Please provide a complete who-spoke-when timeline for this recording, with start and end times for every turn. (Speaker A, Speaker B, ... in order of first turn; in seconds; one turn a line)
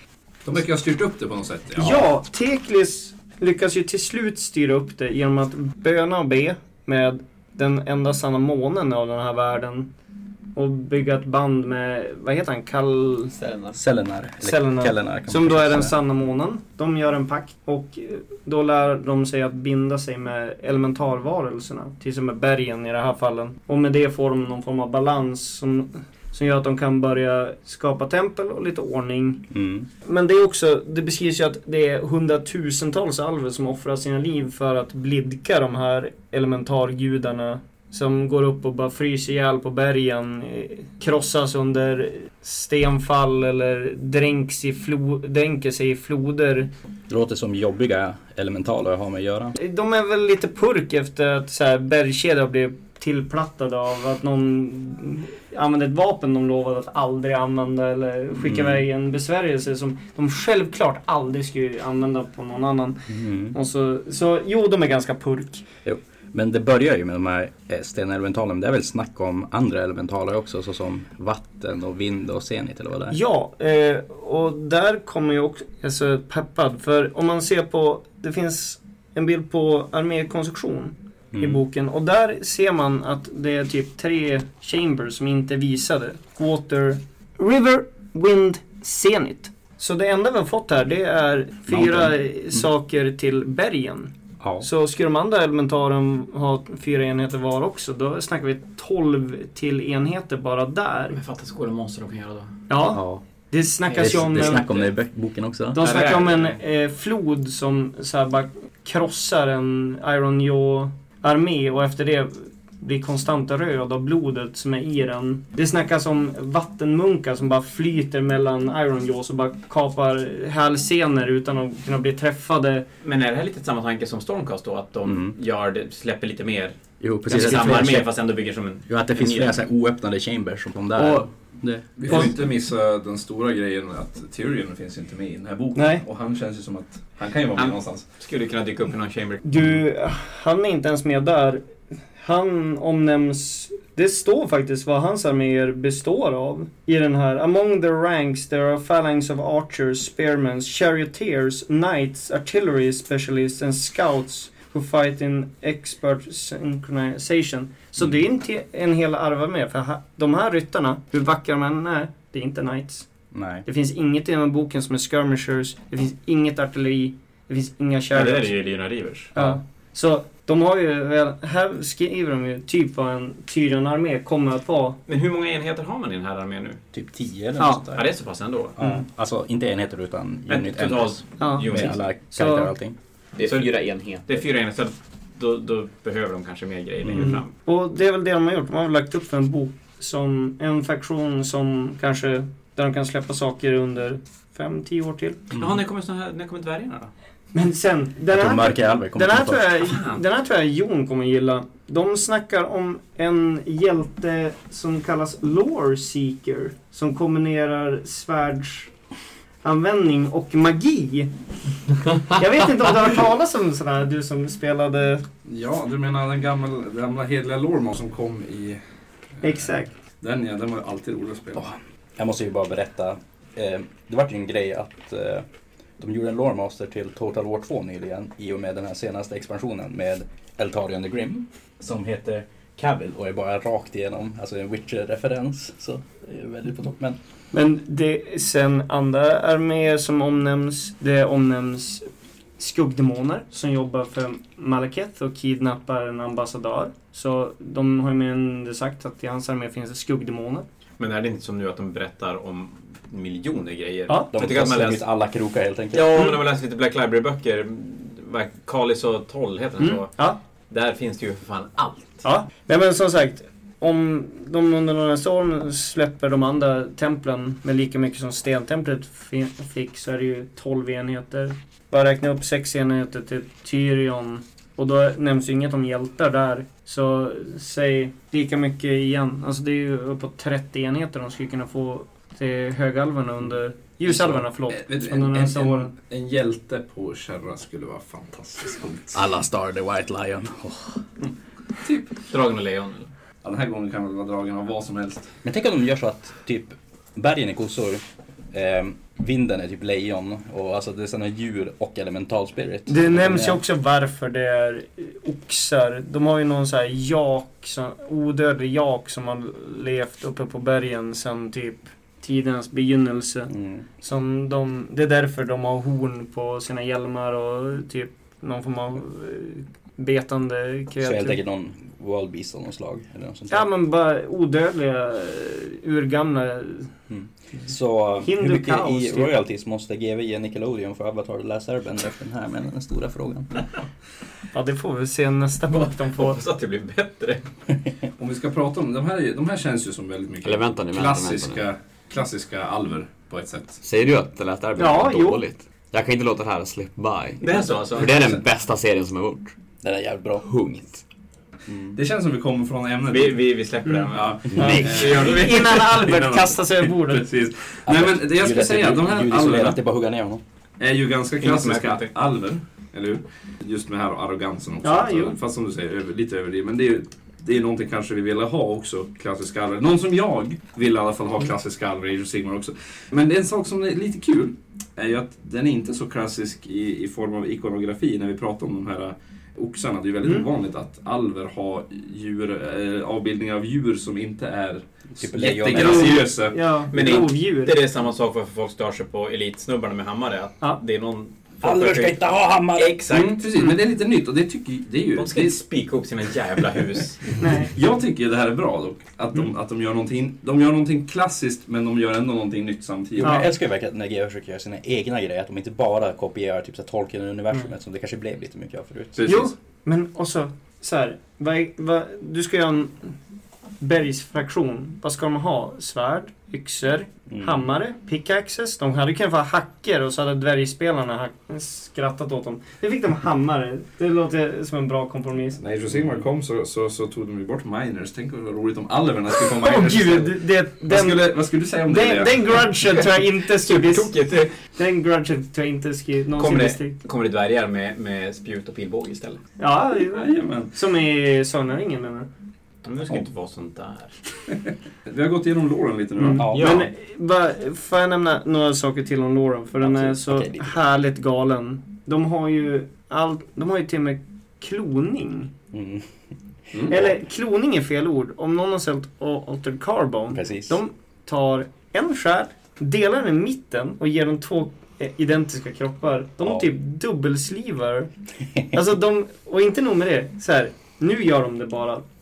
Speaker A: 0.4-2.0
Speaker B: 1.8-9.9
Speaker B: 10.5-13.4
Speaker C: 13.4-13.8
Speaker D: 13.7-15.9
Speaker B: 14.4-29.5
Speaker D: 29.5-29.9
Speaker B: 30.0-46.7
Speaker D: 47.1-49.5
Speaker B: 49.5-65.6
Speaker D: 58.4-58.8
Speaker D: 63.1-63.5
Speaker D: 65.8-73.2
Speaker B: 73.1-101.2
Speaker D: 81.3-81.6
Speaker D: 91.7-92.7
Speaker E: 101.1-102.6
Speaker B: 102.7-104.7
Speaker D: 102.9-103.2
Speaker E: 103.9-104.9
Speaker D: 103.9-105.8
Speaker B: 105.7-122.8
Speaker E: 105.8-106.6
Speaker E: 123.0-129.5
Speaker D: 125.0-125.3
Speaker D: 127.0-128.1
Speaker D: 128.9-132.3
Speaker B: 131.0-131.2
Speaker A: 132.0-138.0
Speaker B: 135.7-136.0
Speaker E: 137.6-139.4
Speaker B: 139.4-141.6
Speaker B: 142.2-163.1
Speaker D: 163.3-163.6
Speaker B: 163.6-168.5
Speaker E: 168.1-169.3
Speaker B: 169.3-175.0
Speaker E: 175.1-176.8
Speaker D: 176.9-178.1
Speaker B: 177.6-177.8
Speaker E: 177.9-178.8
Speaker D: 178.8-183.0
Speaker E: 180.5-182.0
Speaker B: 181.4-182.7
Speaker C: 183.3-184.4
Speaker E: 183.4-183.7
Speaker E: 184.2-187.5
Speaker D: 187.0-187.4
Speaker B: 187.2-195.5
Speaker E: 195.5-197.1
Speaker B: 197.5-208.9
Speaker D: 198.3-199.9
Speaker E: 199.8-200.2
Speaker B: 209.6-211.3
Speaker B: 212.2-215.2
Speaker A: 215.4-218.8
Speaker A: 219.4-221.7
Speaker B: 219.4-219.9
Speaker D: 221.6-225.4
Speaker D: 226.0-237.2
Speaker B: 237.5-250.7
Speaker E: 251.0-255.1
Speaker D: 254.3-256.2
Speaker E: 255.9-262.2
Speaker B: 259.8-260.4
Speaker B: 262.2-285.9
Speaker A: 284.1-289.2
Speaker D: 289.1-291.0
Speaker A: 291.8-292.1
Speaker E: 292.2-293.1
Speaker A: 293.4-295.3
Speaker D: 295.4-303.6
Speaker B: 302.9-321.4
Speaker D: 313.5-313.8
Speaker D: 321.0-323.7
Speaker B: 323.5-326.9
Speaker D: 327.1-333.6
Speaker B: 328.2-329.3
Speaker B: 334.5-336.4
Speaker E: 335.7-337.4
Speaker A: 338.2-343.8
Speaker C: 340.4-341.6
Speaker C: 343.8-349.5
Speaker B: 344.8-345.4
Speaker E: 347.4-348.3
Speaker D: 349.8-350.4
Speaker C: 350.4-351.0
Speaker D: 351.7-351.9
Speaker A: 351.9-353.4
Speaker E: 353.1-356.1
Speaker B: 353.9-357.3
Speaker A: 354.1-359.8
Speaker D: 357.9-360.4
Speaker A: 360.8-386.6
Speaker E: 361.4-362.1
Speaker B: 364.8-365.4
Speaker B: 380.2-380.5
Speaker D: 385.2-386.1
Speaker B: 385.7-387.8
Speaker E: 386.9-392.2
Speaker D: 391.6-393.0
Speaker E: 392.7-393.5
Speaker A: 393.1-395.6
Speaker E: 395.2-397.4
Speaker B: 397.4-397.7
Speaker A: 397.7-403.4
Speaker D: 403.2-409.3
Speaker B: 403.2-403.5
Speaker A: 409.1-409.5
Speaker B: 409.2-413.1
Speaker B: 413.8-425.6
Speaker D: 417.3-417.6
Speaker A: 425.6-432.7
Speaker B: 429.4-431.3
Speaker B: 431.9-437.0
Speaker E: 433.6-434.5
Speaker E: 436.4-439.4
Speaker B: 439.6-442.3
Speaker A: 440.1-440.7
Speaker E: 442.8-444.1
Speaker A: 444.5-446.7
Speaker B: 446.2-455.5
Speaker D: 446.3-446.9
Speaker E: 446.5-446.8
Speaker D: 450.0-450.6
Speaker D: 455.7-456.1
Speaker A: 456.7-457.0
Speaker B: 456.9-468.1
Speaker D: 460.3-460.8
Speaker B: 468.7-472.1